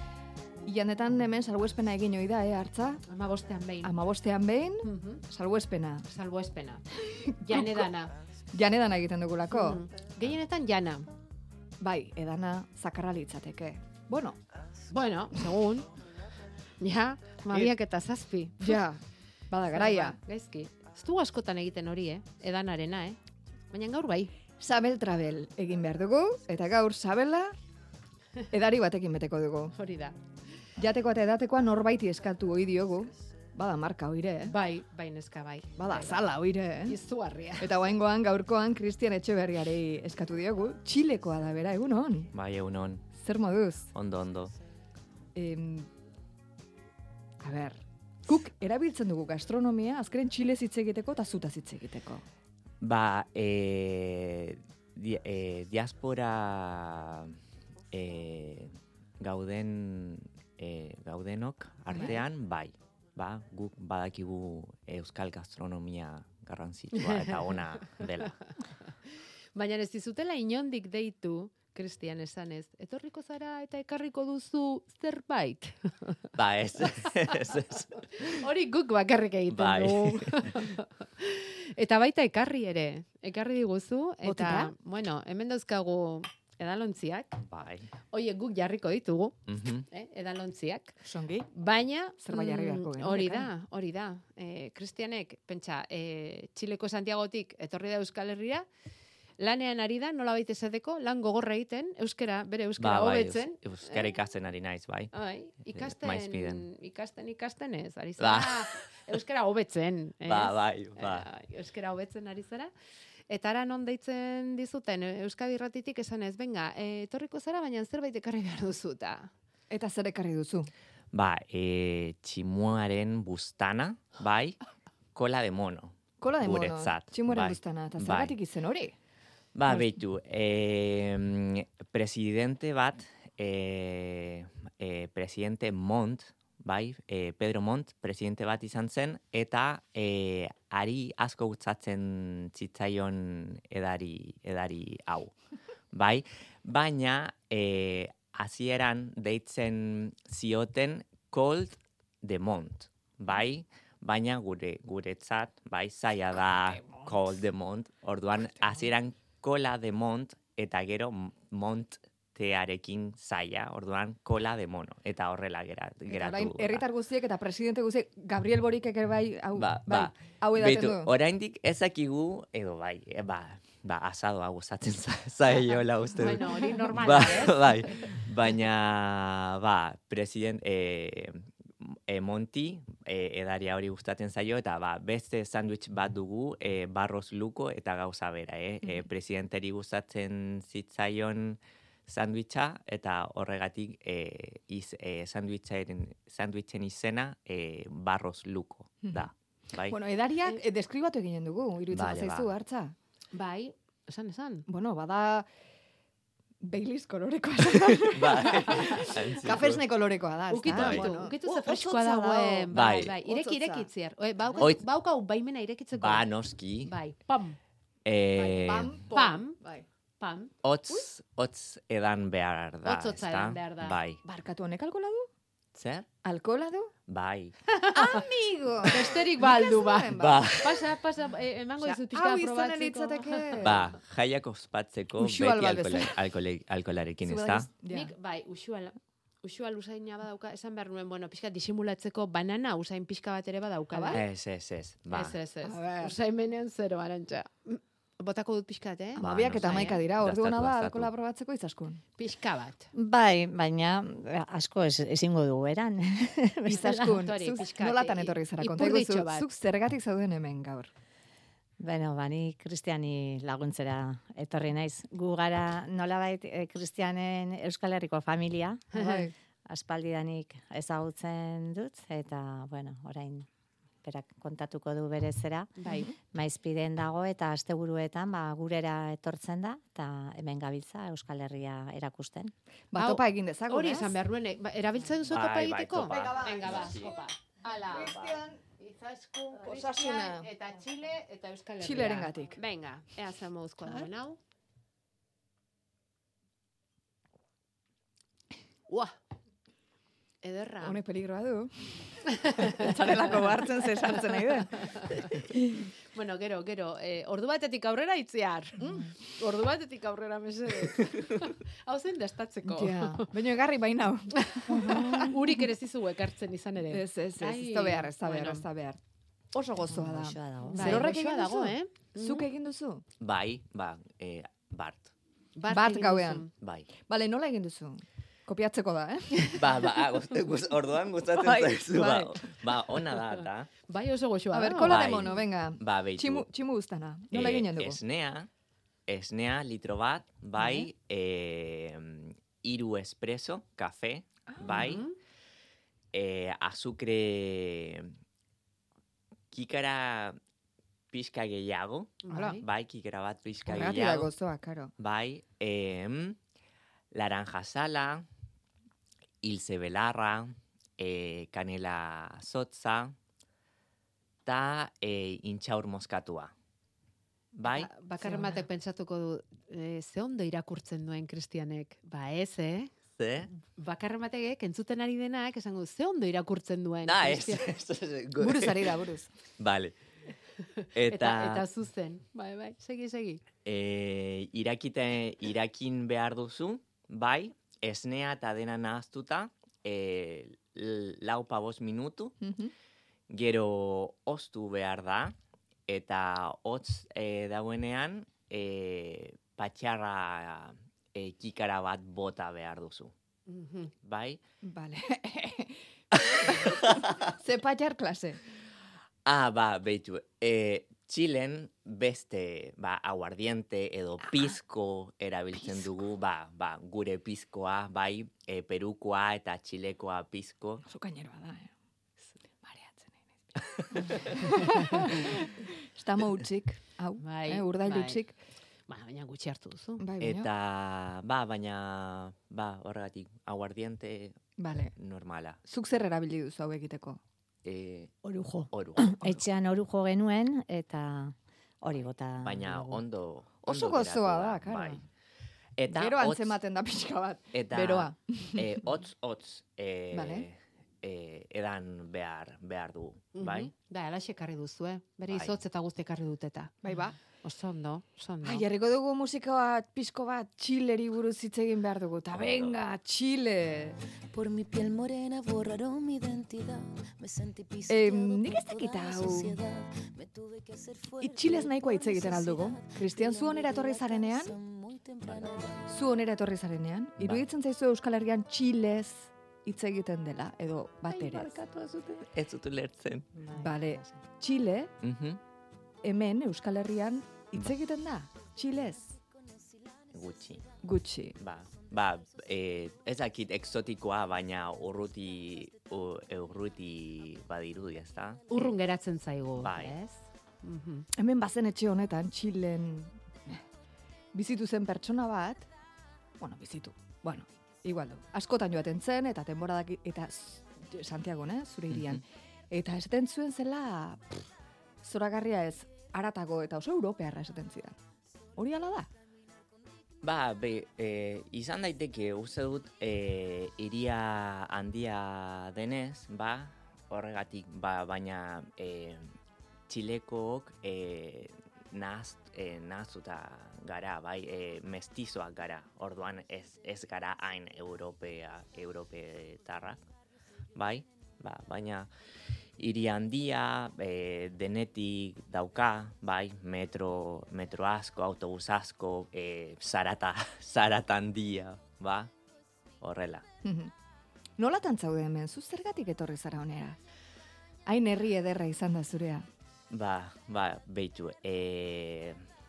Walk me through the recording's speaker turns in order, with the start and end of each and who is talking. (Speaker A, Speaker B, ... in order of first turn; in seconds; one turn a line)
Speaker A: 0.6-3.0
Speaker B: 3.1-3.9
Speaker A: 3.8-6.1
Speaker B: 4.8-5.2
Speaker B: 6.1-6.8
Speaker A: 6.9-7.9
Speaker B: 7.4-8.2
Speaker A: 8.5-9.9
Speaker B: 9.5-11.1
Speaker A: 11.8-14.4
Speaker B: 14.9-15.9
Speaker B: 16.8-18.8
Speaker A: 18.6-20.2
Speaker B: 19.7-23.2
Speaker B: 23.7-24.3
Speaker A: 24.6-27.6
Speaker A: 28.5-29.8
Speaker B: 29.8-30.2
Speaker A: 30.8-34.6
Speaker B: 34.5-36.2
Speaker A: 35.8-37.0
Speaker B: 36.9-37.8
Speaker A: 37.6-42.3
Speaker C: 42.3-43.1
Speaker A: 43.2-43.9
Speaker C: 43.9-44.5
Speaker A: 45.4-45.9
Speaker A: 47.4-52.2
Speaker C: 52.8-57.4
Speaker C: 57.9-68.4
Speaker B: 69.5-76.2
Speaker C: 76.3-78.4
Speaker B: 77.0-77.6
Speaker B: 78.1-87.4
Speaker C: 79.5-80.6
Speaker A: 84.2-84.7
Speaker C: 87.5-87.9
Speaker B: 88.1-89.4
Speaker C: 89.5-89.9
Speaker B: 89.9-91.0
Speaker A: 91.0-91.5
Speaker B: 91.5-98.7
Speaker A: 92.2-93.5
Speaker B: 99.4-104.1
Speaker C: 102.8-105.1
Speaker B: 105.1-112.7
Speaker C: 105.7-106.7
Speaker C: 108.2-108.8
Speaker C: 110.2-111.3
Speaker B: 113.3-119.3
Speaker A: 119.7-120.7
Speaker C: 121.1-124.6
Speaker C: 125.2-128.4
Speaker A: 126.2-129.0
Speaker C: 129.6-145.3
Speaker A: 129.7-129.9
Speaker C: 145.9-166.9
Speaker A: 166.1-171.1
Speaker C: 169.6-200.0
Speaker B: 176.2-178.1
Speaker A: 199.9-202.9
Speaker C: 201.9-202.5
Speaker B: 203.3-204.7
Speaker A: 204.7-205.5
Speaker A: 206.6-213.9
Speaker C: 208.0-209.8
Speaker B: 210.5-216.3
Speaker C: 210.7-211.1
Speaker C: 212.7-213.1
Speaker C: 216.0-216.9
Speaker B: 216.8-217.6
Speaker C: 218.1-219.0
Speaker A: 218.3-219.9
Speaker B: 219.1-219.6
Speaker B: 220.2-220.5
Speaker C: 220.6-224.2
Speaker B: 222.8-224.0
Speaker A: 224.2-225.3
Speaker C: 225.7-226.1
Speaker A: 226.2-226.9
Speaker C: 227.1-227.6
Speaker B: 227.7-228.2
Speaker A: 227.9-230.5
Speaker B: 228.8-233.8
Speaker C: 230.1-230.9
Speaker A: 231.8-233.9
Speaker C: 233.6-237.7
Speaker A: 235.2-236.2
Speaker A: 237.2-238.1
Speaker B: 237.9-244.2
Speaker A: 243.9-244.2
Speaker C: 244.1-245.4
Speaker B: 245.1-250.0
Speaker A: 245.6-246.2
Speaker A: 249.2-252.0
Speaker C: 249.2-251.1
Speaker B: 252.2-252.9
Speaker D: 252.9-257.0
Speaker A: 256.7-260.9
Speaker B: 256.7-259.5
Speaker D: 261.8-269.1
Speaker B: 268.9-269.2
Speaker A: 268.9-269.3
Speaker D: 269.7-273.5
Speaker D: 274.0-275.8
Speaker B: 275.8-276.1
Speaker D: 276.3-282.5
Speaker A: 282.9-284.2
Speaker B: 282.9-294.4
Speaker C: 285.3-287.2
Speaker A: 286.1-287.1
Speaker A: 287.8-288.6
Speaker A: 289.6-290.5
Speaker A: 291.8-292.6
Speaker B: 298.9-299.1
Speaker B: 300.4-301.0
Speaker A: 300.8-305.9
Speaker B: 302.3-302.9
Speaker B: 304.5-305.3
Speaker B: 306.1-313.3
Speaker A: 308.8-309.1
Speaker A: 312.6-315.7
Speaker B: 314.4-318.7
Speaker A: 316.9-319.0
Speaker A: 319.5-323.0
Speaker D: 319.8-321.1
Speaker B: 320.7-322.5
Speaker C: 323.2-325.1
Speaker B: 325.6-326.5
Speaker A: 325.7-326.5
Speaker C: 326.6-326.9
Speaker A: 327.0-329.8
Speaker C: 329.5-333.7
Speaker A: 331.4-332.7
Speaker B: 333.9-335.2
Speaker A: 334.5-338.0
Speaker C: 334.8-336.5
Speaker C: 337.3-338.5
Speaker C: 339.1-345.1
Speaker A: 344.5-345.0
Speaker B: 344.7-345.1
Speaker C: 346.1-348.2
Speaker C: 349.5-350.4
Speaker C: 351.1-354.3
Speaker B: 352.2-352.6
Speaker A: 352.3-352.6
Speaker A: 353.7-354.9
Speaker C: 355.0-356.4
Speaker C: 357.1-358.3
Speaker C: 359.4-363.2
Speaker C: 364.5-366.5
Speaker C: 367.5-367.9
Speaker B: 367.6-372.9
Speaker A: 368.2-368.7
Speaker C: 373.2-373.5
Speaker B: 373.6-377.7
Speaker C: 377.1-379.0
Speaker A: 378.4-379.3
Speaker C: 379.6-380.0
Speaker B: 380.8-383.4
Speaker C: 380.9-381.7
Speaker C: 383.6-392.4
Speaker A: 392.4-392.7
Speaker C: 393.3-395.4
Speaker C: 395.9-403.1
Speaker B: 403.5-403.9
Speaker C: 404.0-404.4
Speaker A: 404.6-408.4
Speaker C: 406.1-407.3
Speaker C: 409.2-420.9
Speaker A: 415.6-415.9
Speaker A: 420.9-421.7
Speaker A: 422.5-428.4
Speaker C: 423.6-425.1
Speaker B: 427.2-428.2
Speaker B: 428.9-430.0
Speaker A: 430.0-430.5
Speaker C: 430.2-434.4
Speaker A: 434.6-434.9
Speaker C: 434.9-435.6
Speaker A: 435.7-437.2
Speaker C: 437.6-438.2
Speaker D: 438.3-443.0
Speaker C: 438.7-439.4
Speaker C: 442.4-445.0
Speaker A: 443.6-445.0
Speaker C: 445.8-446.6
Speaker A: 445.9-448.8
Speaker C: 447.5-453.7
Speaker A: 450.1-450.5
Speaker B: 453.4-456.8
Speaker C: 455.3-455.6
Speaker A: 456.8-457.2
Speaker B: 457.4-458.6
Speaker A: 458.4-464.0
Speaker C: 462.3-462.8
Speaker E: 464.3-475.8
Speaker A: 467.9-469.6
Speaker A: 471.2-474.6
Speaker C: 475.2-475.9
Speaker A: 475.9-481.5
Speaker C: 477.2-477.4
Speaker C: 481.1-483.3
Speaker D: 483.4-484.2
Speaker A: 483.5-484.9
Speaker C: 485.0-485.4
Speaker A: 486.0-489.2
Speaker C: 490.1-490.7
Speaker A: 490.8-491.4
Speaker C: 491.4-498.7
Speaker B: 498.5-501.1
Speaker C: 499.6-500.0
Speaker A: 501.1-503.6
Speaker A: 504.3-505.7
Speaker A: 506.4-514.5
Speaker C: 511.9-512.2
Speaker A: 515.0-518.0
Speaker A: 518.6-519.1
Speaker C: 520.2-529.4
Speaker C: 529.9-540.0
Speaker C: 540.8-542.1
Speaker C: 542.8-552.3
Speaker C: 553.0-553.5
Speaker A: 553.6-553.9
Speaker A: 554.6-557.0
Speaker A: 557.9-559.5
Speaker C: 559.9-562.5